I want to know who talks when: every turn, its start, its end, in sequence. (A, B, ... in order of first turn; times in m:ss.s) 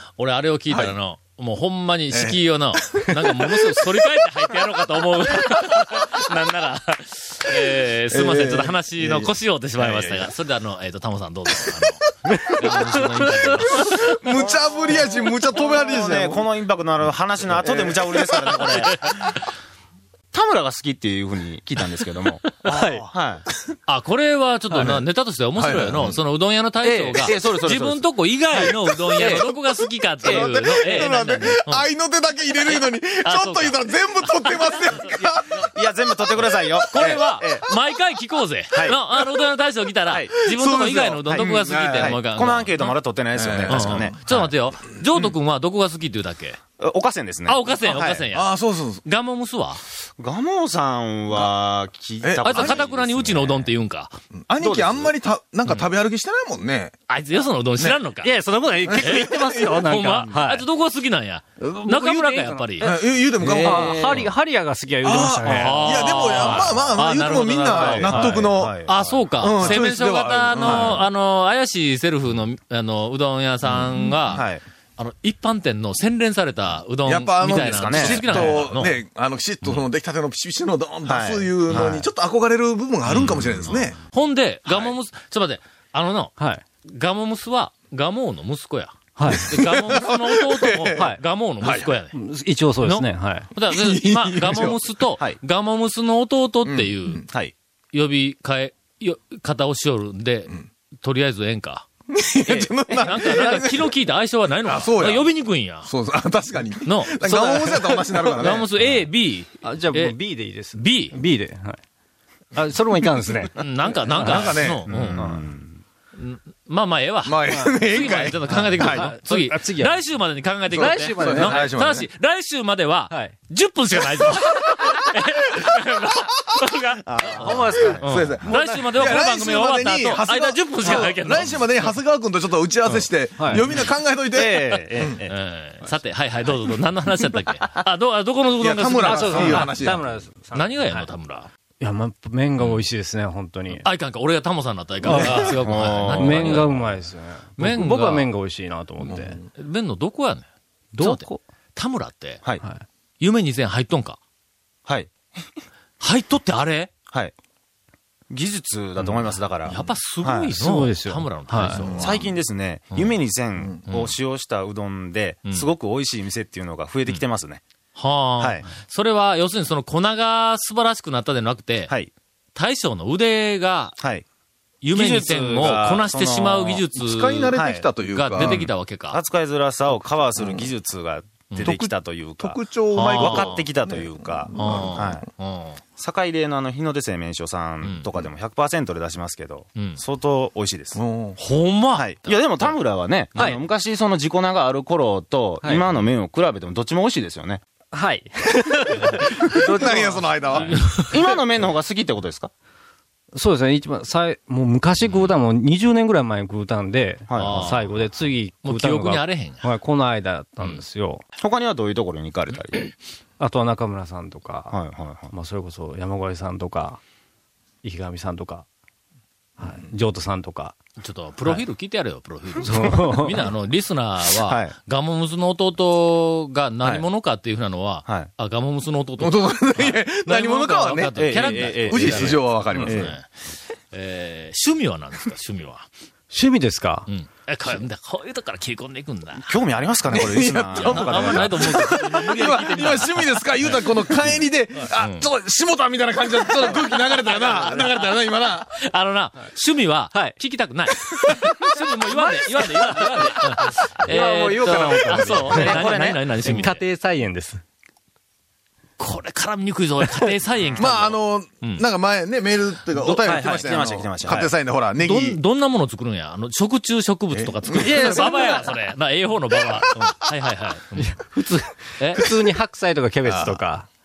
0:00.2-0:14.1 A
0:00.7-0:00.9 B
0:02.1-0:03.9 B
0:08.1-0:10.3 B
0:12.3-0:12.8 B
0:13.7-0:16.5 B
0:14.4-0:19.0 C
0:17.6-0:19.0 B
0:20.3-0:23.4 C
0:22.6-0:23.0 D
0:23.9-0:31.9 A
0:25.5-0:26.2 B
0:26.8-0:28.6 C
0:28.6-0:35.7 B
0:29.2-0:29.4 C
0:30.2-0:31.1 C
0:32.5-0:35.0 A
0:35.1-0:37.6 C
0:36.3-0:37.2 B
0:36.9-0:43.0 A
0:40.1-0:40.4 C
0:40.5-0:42.2 B
0:41.3-0:44.2 C
0:43.3-0:44.5 B
0:43.7-0:46.6 A
0:46.8-0:48.3 C
0:47.4-0:49.8 A
0:48.3-0:49.0 B
0:50.2-0:53.7 C
0:52.2-0:52.8 B
0:52.4-0:54.2 A
0:54.3-0:56.9 B
0:54.6-0:55.1 C
0:55.6-0:55.9 A
0:57.1-0:58.3 A
0:58.2-1:00.6 D
0:58.8-0:59.8 B
0:58.9-1:02.9 A
1:01.6-1:06.7 D
1:02.8-1:04.3 B
1:03.5-1:04.2 C
1:05.0-1:11.1 B
1:05.4-1:19.0 A
1:07.7-1:09.8 C
1:10.5-1:11.0 C
1:13.6-1:14.6 C
1:14.1-1:14.3 B
1:17.0-1:24.0 B
1:17.7-1:18.7 C
1:21.0-1:22.1 C
1:23.1-1:23.9 C
1:24.1-1:32.2 A
1:24.7-1:24.9 C
1:26.4-1:26.6 D
1:29.2-1:29.5 D
1:29.3-1:31.1 B
1:31.6-1:31.9 B
1:32.1-1:33.5 D
1:32.8-1:37.3 A
1:33.6-1:34.8 B
1:36.6-1:37.2 B
1:37.3-1:37.5 C
1:37.9-1:41.8 A
1:42.1-1:43.9 B
1:42.5-1:45.9 A
1:44.6-1:48.6 B
1:46.8-1:51.2 A
1:49.6-1:51.8 D
1:52.5-1:53.5 D
1:53.6-1:55.3 A
1:54.1-1:54.5 D
1:54.2-1:55.0 B
1:54.9-1:55.8 C
1:56.2-2:11.9 A
1:57.2-1:59.1 B
1:58.5-2:00.0 D
2:00.7-2:01.7 D
2:00.7-2:02.1 B
2:03.1-2:03.3 D
2:04.2-2:04.8 B
2:07.0-2:08.2 C
2:07.3-2:08.0 D
2:08.0-2:15.2 B
2:12.9-2:13.6 D
2:14.3-2:15.3 C
2:14.7-2:19.8 A
2:18.6-2:20.2 B
2:19.0-2:21.1 D
2:20.5-2:21.5 A
2:21.8-2:23.8 D
2:23.8-2:27.0 A
2:25.0-2:29.4 D
2:25.1-2:25.5 B
2:25.1-2:26.7 C
2:27.6-2:28.3 A
2:29.0-2:29.4 B
2:29.6-2:30.4 A
2:30.9-2:31.4 D
2:31.0-2:32.5 A
2:33.2-2:34.2 A
2:34.8-2:35.6 C
2:36.0-2:36.9 A
2:38.3-2:40.5 C
2:39.0-2:42.2 A
2:40.5-2:41.8 D
2:41.7-2:42.3 B
2:42.0-2:47.6 C
2:42.9-2:43.2 A
2:43.8-2:44.2 A
2:47.9-2:52.0 A
2:48.4-2:48.7 C
2:52.5-2:54.0 A
2:54.0-2:54.2 C
2:54.8-2:59.2 A
2:54.9-2:56.9 C
2:56.9-2:58.7 B
2:57.5-3:05.2 C
3:00.4-3:00.7 B
3:01.5-3:01.8 A
3:01.6-3:05.0 B
3:02.9-3:03.7 A
3:04.5-3:05.8 A
3:06.0-3:11.0 C
3:07.8-3:08.1 A
3:09.7-3:10.0 A
3:10.9-3:11.4 B
3:11.4-3:12.8 A
3:11.9-3:17.6 C
3:17.9-3:20.8 D
3:19.5-3:20.8 B
3:20.6-3:21.0 A
3:21.1-3:22.5 C
3:23.3-3:31.2 D
3:27.3-3:27.6 C
3:27.4-3:29.6 A
3:31.4-3:32.9 C
3:33.4-3:34.8 D
3:34.7-3:35.3 C
3:35.3-3:37.0 D
3:37.8-3:38.6 D
3:39.6-3:40.7 D
3:41.0-3:53.3 A
3:42.6-3:43.4 D
3:44.2-3:44.7 C
3:49.2-3:53.1 B
3:51.1-3:53.1 C
3:53.9-3:55.9 A
3:56.3-3:57.1 D
3:57.1-3:59.6 A
3:59.4-4:01.5 C
4:00.1-4:08.7 B
4:00.1-4:05.2 A
4:06.6-4:08.2 A
4:08.7-4:16.8 A
4:11.2-4:17.6 D
4:14.2-4:15.1 C
4:15.7-4:16.2 C
4:19.0-4:21.8 A
4:20.6-4:20.9 C
4:20.8-4:25.4 B
4:22.9-4:24.5 C
4:25.0-4:31.2 A
4:27.3-4:28.6 B
4:27.8-4:28.6 D
4:31.0-4:33.9 D
4:32.0-4:32.2 A
4:33.2-4:33.6 B